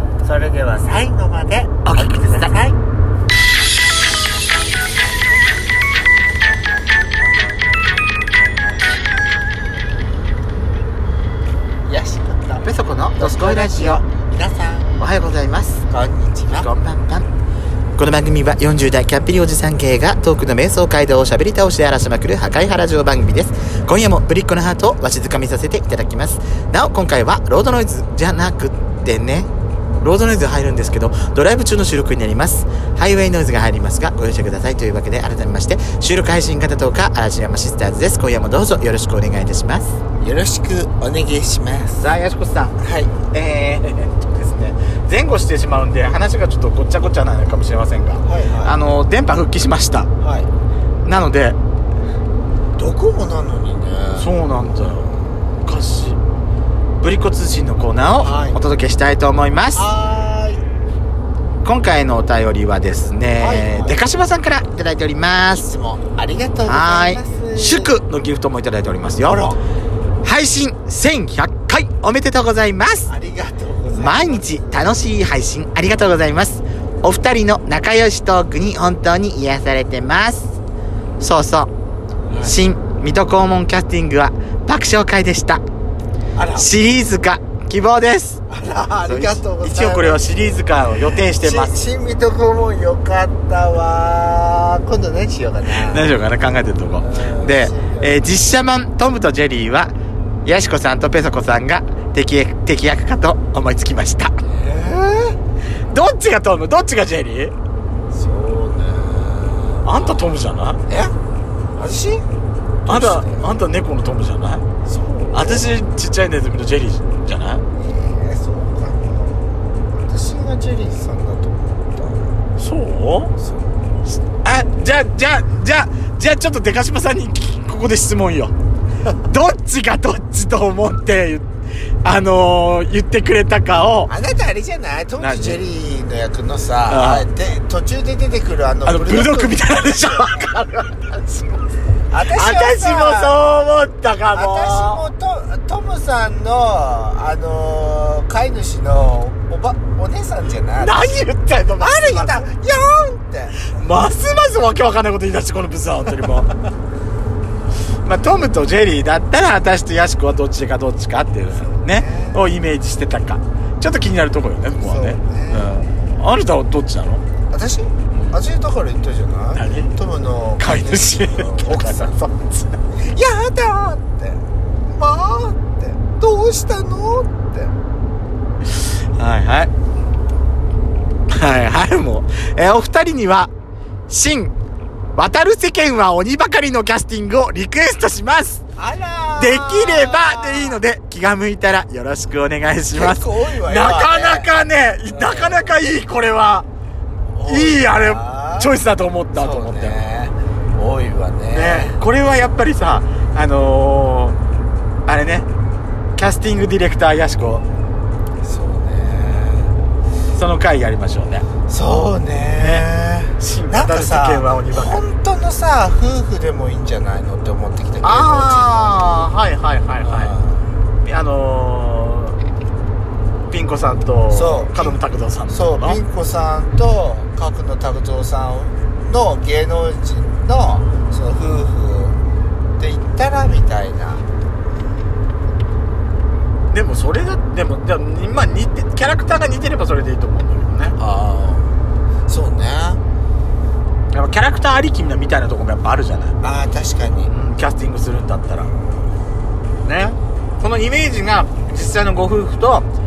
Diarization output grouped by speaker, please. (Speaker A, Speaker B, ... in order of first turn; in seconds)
Speaker A: 0.2-2.8, 11.8-15.0, 15.9-16.7, 40.2-42.0, 42.8-43.1, 48.2-48.8, 50.2-50.5, 52.8-54.3, 58.2-58.6, 59.7-60.6, 63.3-64.0, 65.6-67.9, 69.2-69.6, 73.1-75.0, 82.3-82.6, 86.3-86.7, 88.5-90.6, 91.3-96.1, 97.0-98.2, 104.4-105.4, 108.1-110.3, 110.9-111.1, 111.7-112.2, 112.8-113.5, 114.8-115.7, 117.7-122.3, 123.4-123.7, 134.1-140.1, 142.1-143.4, 144.3-151.1, 151.8-153.8, 161.4-162.5, 164.8-165.8, 167.5-172.2, 173.1-177.7, 188.8-190.8, 192.9-194.5, 195.1-195.8, 197.3-198.7, 199.3-202.0, 208.4-209.7, 211.7-219.0, 220.0-220.6, 224.3-232.2, 232.8-234.2, 240.9-241.7, 242.3-243.0, 246.4-247.3
Speaker B: 1.8-2.5, 12.6-14.0, 15.0-15.8, 16.5-17.3, 17.9-29.5, 30.0-40.0, 42.0-50.1, 51.0-51.6, 54.2-55.0, 55.6-56.2, 57.0-59.8, 61.6-65.7, 66.7-69.4, 70.2-73.1, 73.9-80.5, 81.2-81.7, 82.4-85.6, 86.5-88.4, 89.0-91.7, 95.8-99.9, 100.4-104.4, 105.9-107.5, 109.8-110.8, 112.9-114.6, 115.3-117.6, 122.6-123.3, 124.2-128.5, 129.2-131.4, 132.0-134.1, 135.2-135.6, 136.9-137.2, 138.8-141.6, 142.3-145.1, 150.8-152.4, 153.7-156.5, 158.0-167.2, 169.5-169.9, 170.6-172.7, 179.1-179.7, 181.3-183.5, 184.1-184.5, 185.2-188.6, 189.4-196.7, 197.5-200.0, 201.5-204.3, 205.1-205.5, 206.2-207.6, 210.3-211.4, 212.6-212.9, 213.4-215.0, 218.0-220.3, 221.0-222.4, 223.5-226.0, 236.7-240.9, 244.1-246.3, 247.3-248.7, 249.8-252.8